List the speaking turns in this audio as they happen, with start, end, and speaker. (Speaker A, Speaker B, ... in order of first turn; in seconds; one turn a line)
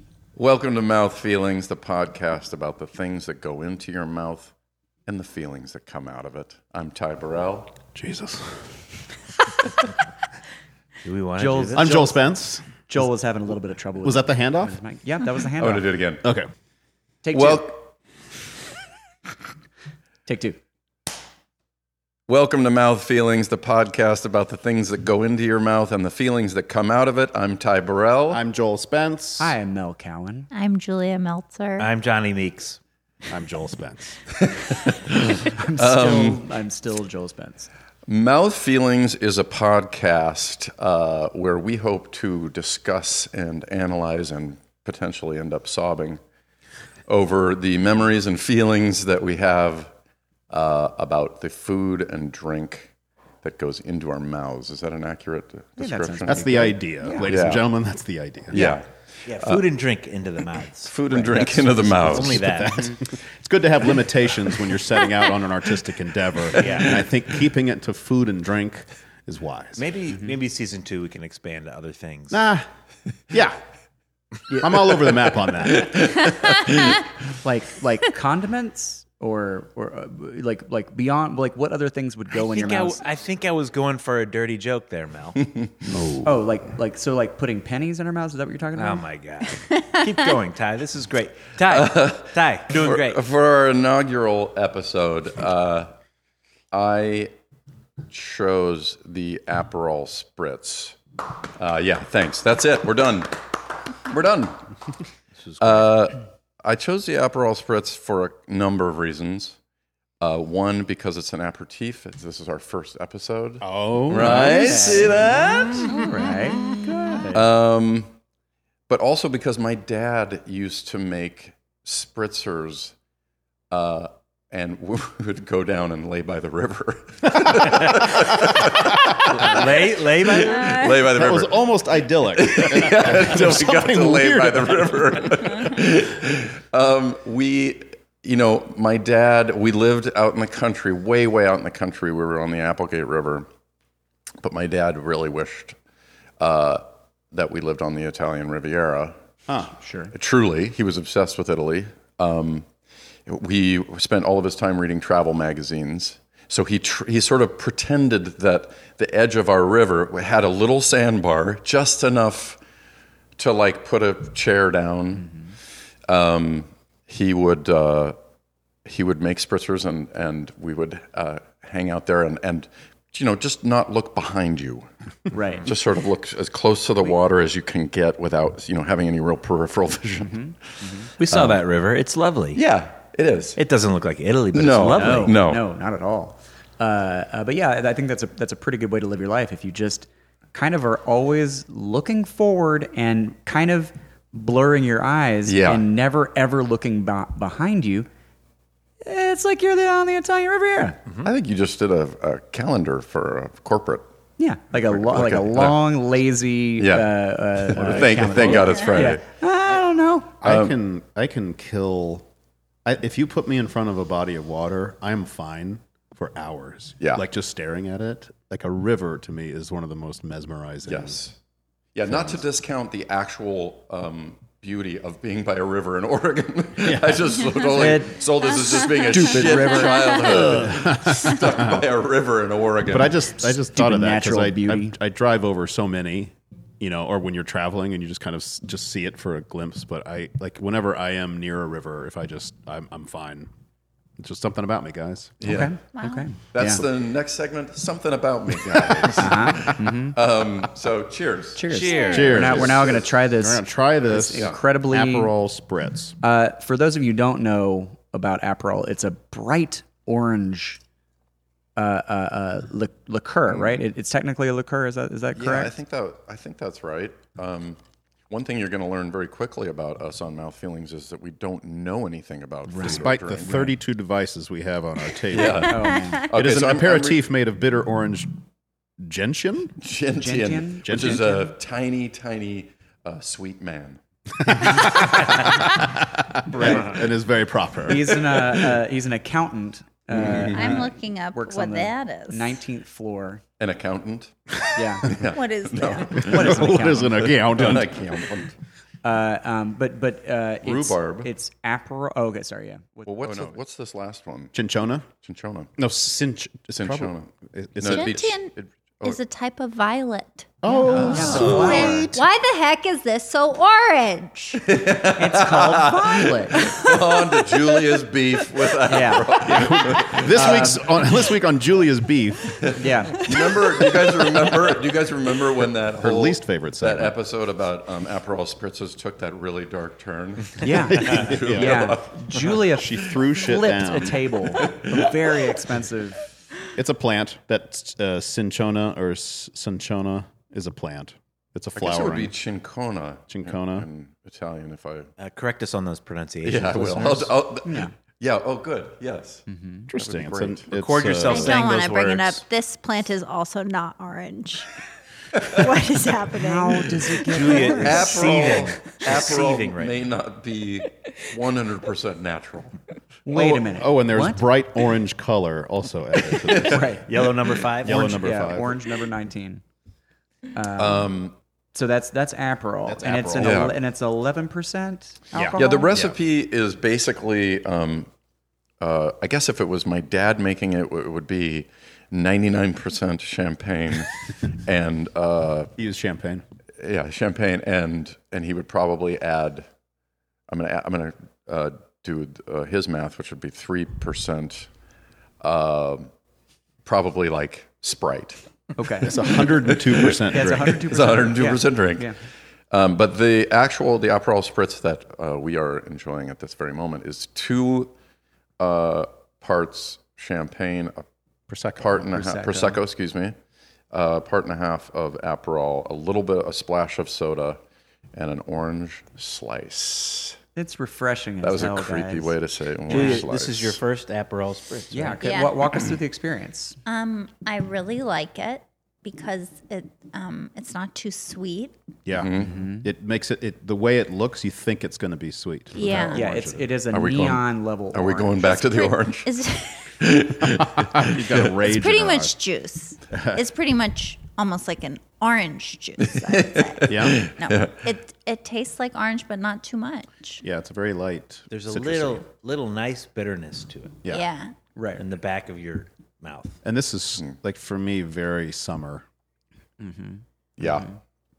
Speaker A: 0.3-4.5
Speaker A: 5.0-7.7
Speaker B: 7.9-8.6
Speaker C: 11.0-12.0
Speaker D: 11.4-12.2
Speaker B: 11.7-13.1
Speaker D: 12.9-15.9
Speaker B: 14.0-14.8
Speaker A: 15.6-16.2
Speaker B: 16.2-16.5
Speaker D: 17.2-17.8
Speaker A: 17.3-17.9
Speaker D: 20.2-20.6
Speaker A: 22.3-28.4
Speaker B: 28.3-29.6
Speaker D: 29.4-30.5
Speaker E: 30.5-31.9
Speaker C: 31.8-32.8
Speaker B: 33.3-34.2
Speaker A: 34.4-36.4
Speaker D: 35.5-37.7
Speaker A: 38.1-46.2
Speaker A: 47.1-49.9
Speaker A: 50.5-56.7
Speaker D: 55.8-57.3
Speaker B: 56.2-58.8
Speaker A: 57.2-57.7
Speaker A: 58.5-59.7
Speaker C: 59.2-62.9
Speaker A: 60.9-62.7
Speaker B: 62.0-69.8
Speaker C: 66.5-66.9
Speaker A: 66.7-67.1
Speaker C: 69.8-72.5
Speaker B: 72.3-72.7
Speaker B: 73.3-73.6
Speaker D: 74.5-74.8
Speaker B: 74.6-76.1
Speaker A: 75.7-77.0
Speaker D: 77.4-83.0
Speaker C: 82.5-85.4
Speaker B: 85.9-86.4
Speaker D: 86.2-89.0
Speaker C: 88.7-93.2
Speaker A: 91.7-95.9
Speaker A: 96.7-97.3
Speaker A: 98.1-101.0
Speaker A: 101.6-103.4
Speaker A: 104.0-104.6
Speaker C: 105.4-105.9
Speaker A: 105.6-109.5
Speaker A: 110.2-115.9
Speaker B: 113.6-115.0
Speaker D: 114.2-115.2
Speaker C: 114.9-115.9
Speaker D: 115.7-117.5
Speaker A: 117.3-118.1
Speaker A: 118.9-122.9
Speaker A: 123.7-143.5
Speaker C: 127.7-128.0
Speaker C: 129.3-130.7
Speaker E: 130.5-130.9
Speaker B: 130.8-135.6
Speaker A: 144.4-145.8
Speaker A: 146.4-149.2
Speaker D: 149.8-150.1
Speaker A: 150.1-152.7
Speaker A: 153.2-162.6
Speaker A: 163.4-165.3
Speaker D: 165.2-165.5
Speaker A: 166.1-168.2
Speaker A: 168.8-174.9
Speaker D: 175.3-175.7
Speaker A: 175.6-180.4
Speaker D: 180.2-181.1
Speaker C: 181.2-182.6
Speaker A: 181.2-181.6
Speaker A: 182.5-183.6
Speaker C: 183.6-185.4
Speaker A: 184.5-185.6
Speaker D: 184.9-198.1
Speaker A: 195.4-195.8
Speaker D: 199.0-201.0
Speaker A: 201.2-204.1
Speaker D: 204.4-210.3
Speaker A: 204.9-205.8
Speaker A: 206.8-209.2
Speaker B: 207.8-208.8
Speaker B: 210.4-212.3
Speaker A: 210.4-210.7
Speaker B: 212.8-221.2
Speaker A: 220.8-221.3
Speaker A: 221.9-233.3
Speaker B: 222.1-222.4
Speaker B: 226.8-227.4
Speaker D: 227.7-228.1
Speaker D: 229.0-230.6
Speaker E: 229.7-230.2
Speaker B: 230.2-231.8
Speaker B: 232.9-243.5
Speaker D: 233.7-234.9
Speaker B: 244.2-245.4
Speaker A: 245.4-245.7
Speaker D: 245.4-246.8
Speaker E: 245.9-246.2
Speaker A: 246.5-251.7
Speaker B: 248.8-249.1
Speaker D: 249.2-250.2
Speaker D: 251.6-255.3
Speaker C: 251.7-252.7
Speaker B: 252.1-256.1
Speaker A: 252.3-253.0
Speaker D: 256.2-260.8
Speaker D: 261.8-265.7
Speaker A: 265.3-267.8
Speaker A: 268.3-273.7
Speaker B: 272.7-278.4
Speaker A: 275.3-277.3
Speaker D: 275.5-276.3
Speaker B: 279.0-279.7
Speaker A: 279.8-284.0
Speaker D: 280.2-281.5
Speaker B: 280.8-281.4
Speaker B: 284.5-288.5
Speaker D: 287.9-293.4
Speaker A: 290.1-290.7
Speaker E: 290.4-292.6
Speaker A: 293.6-294.3
Speaker D: 294.7-295.2
Speaker A: 295.0-298.5
Speaker E: 295.2-296.3
Speaker D: 295.8-297.2
Speaker B: 296.1-298.4
Speaker D: 299.0-303.6
Speaker A: 300.6-301.3
Speaker A: 303.1-304.5
Speaker B: 304.5-305.1
Speaker A: 305.2-305.7
Speaker B: 305.8-308.3
Speaker A: 306.8-309.2
Speaker E: 307.8-308.5
Speaker E: 309.0-314.6
Speaker B: 310.6-312.2
Speaker D: 310.6-312.1
Speaker A: 310.9-311.6
Speaker A: 314.6-320.6
Speaker D: 315.1-316.7
Speaker E: 316.6-317.5
Speaker D: 318.9-319.3
Speaker B: 319.4-324.7
Speaker D: 320.3-320.9
Speaker A: 322.6-332.6
Speaker D: 322.8-323.2
Speaker B: 326.0-327.1
Speaker D: 330.6-336.2
Speaker B: 330.9-331.9
Speaker B: 332.7-334.3
Speaker A: 334.6-335.1
Speaker B: 336.7-342.3
Speaker A: 341.8-345.1
Speaker B: 343.3-343.9
Speaker C: 345.2-347.3
Speaker A: 346.4-351.5
Speaker D: 347.6-347.9
Speaker D: 349.5-349.9
Speaker B: 349.9-351.5
Speaker C: 350.7-352.4
Speaker E: 351.3-354.7
Speaker E: 355.4-358.3
Speaker D: 356.3-358.3
Speaker C: 357.2-360.0
Speaker A: 357.7-362.7
Speaker D: 363.2-364.4
Speaker B: 363.3-367.0
Speaker A: 366.3-366.9
Speaker D: 366.6-367.1
Speaker C: 367.0-368.1
Speaker B: 367.8-368.8
Speaker D: 367.8-369.6
Speaker D: 370.5-371.1
Speaker A: 370.8-371.3
Speaker D: 371.7-375.9
Speaker B: 372.9-373.7
Speaker A: 373.4-373.7
Speaker B: 375.3-376.2
Speaker A: 375.6-378.1
Speaker A: 378.8-385.7
Speaker B: 385.8-386.4
Speaker A: 386.8-389.7
Speaker A: 390.5-394.7
Speaker A: 395.4-396.1
Speaker A: 396.8-398.4
Speaker D: 398.8-399.3
Speaker B: 399.0-400.9
Speaker A: 399.0-402.1
Speaker D: 400.3-402.2
Speaker A: 402.7-407.9
Speaker A: 408.6-411.1
Speaker B: 411.5-412.1
Speaker A: 411.8-413.3
Speaker D: 412.1-412.8
Speaker A: 413.9-417.6
Speaker A: 418.1-420.4
Speaker D: 420.6-422.3
Speaker A: 421.4-423.8
Speaker C: 422.9-425.3
Speaker D: 422.9-423.2
Speaker D: 424.9-426.8
Speaker E: 425.2-425.5
Speaker E: 426.9-431.8
Speaker B: 432.1-436.7
Speaker A: 432.2-432.5
Speaker D: 432.4-432.9
Speaker E: 435.7-436.2
Speaker D: 436.1-438.4
Speaker A: 436.9-439.3
Speaker E: 438.4-440.0
Speaker A: 440.0-441.6
Speaker B: 440.4-442.3
Speaker E: 441.6-450.4
Speaker B: 443.1-443.4
Speaker A: 446.1-447.8
Speaker B: 446.9-447.2
Speaker B: 450.4-452.2
Speaker C: 451.5-454.0
Speaker E: 454.1-454.5
Speaker D: 454.8-455.0
Speaker C: 455.0-456.6
Speaker B: 456.6-459.0
Speaker D: 459.8-460.9
Speaker A: 460.6-460.9